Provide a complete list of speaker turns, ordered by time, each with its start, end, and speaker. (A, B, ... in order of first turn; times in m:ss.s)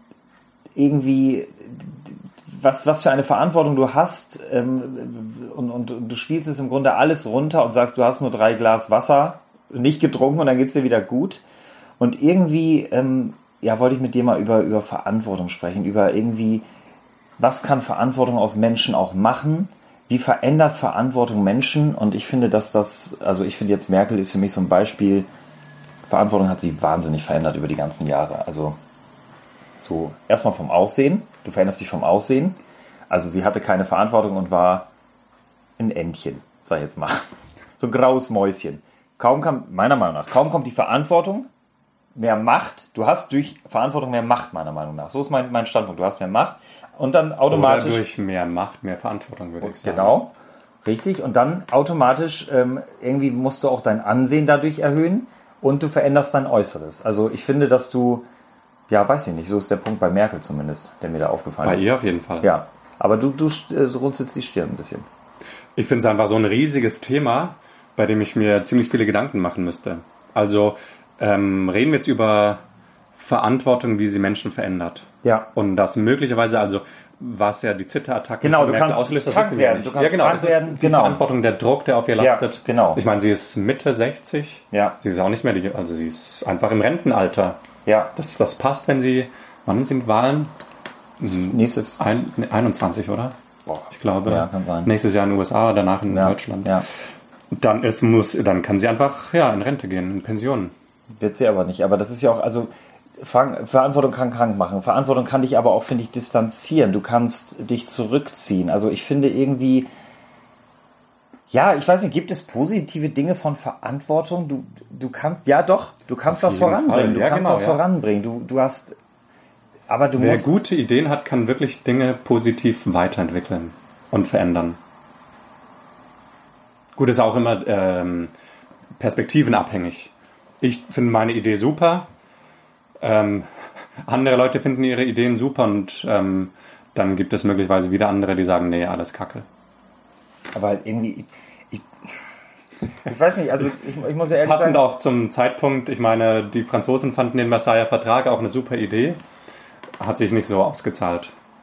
0:00.8-0:11.4 A
0:12.0-0:16.6 A
0:17.4-0:25.3 A
0:26.1-0:28.8 A
0:29.8-0:32.6 A
0:33.1-0:34.9 A
0:35.8-0:37.2 A
0:37.8-0:41.5 A
0:42.2-0:48.0 A
0:47.5-0:50.2 B
0:49.6-0:50.3 A
0:50.8-0:58.2 A
0:58.9-1:01.9 A
1:01.6-1:02.5 B
1:02.4-1:05.1 A
1:05.8-1:12.6 B
1:13.2-1:27.6 B
1:15.2-1:15.5 A
1:18.4-1:21.2 A
1:22.2-1:23.0 A
1:24.7-1:25.0 A
1:27.8-1:28.1 A
1:28.1-1:30.5 B
1:31.2-1:33.3 B
1:31.2-1:32.2 A
1:33.6-1:34.9 A
1:33.9-1:36.8 B
1:36.1-1:36.8 A
1:37.5-1:40.7 B
1:41.2-1:49.9 A
1:51.5-1:59.0 A
1:56.3-1:57.8 B
1:59.9-2:00.5 A
2:00.2-2:04.8 B
2:07.0-2:08.3 B
2:09.0-2:12.1 B
2:13.0-2:13.5 B
2:14.1-2:19.4 B
2:20.5-2:21.8 A
2:23.0-2:24.8 A
2:24.4-2:29.2 B
2:30.0-2:31.3 B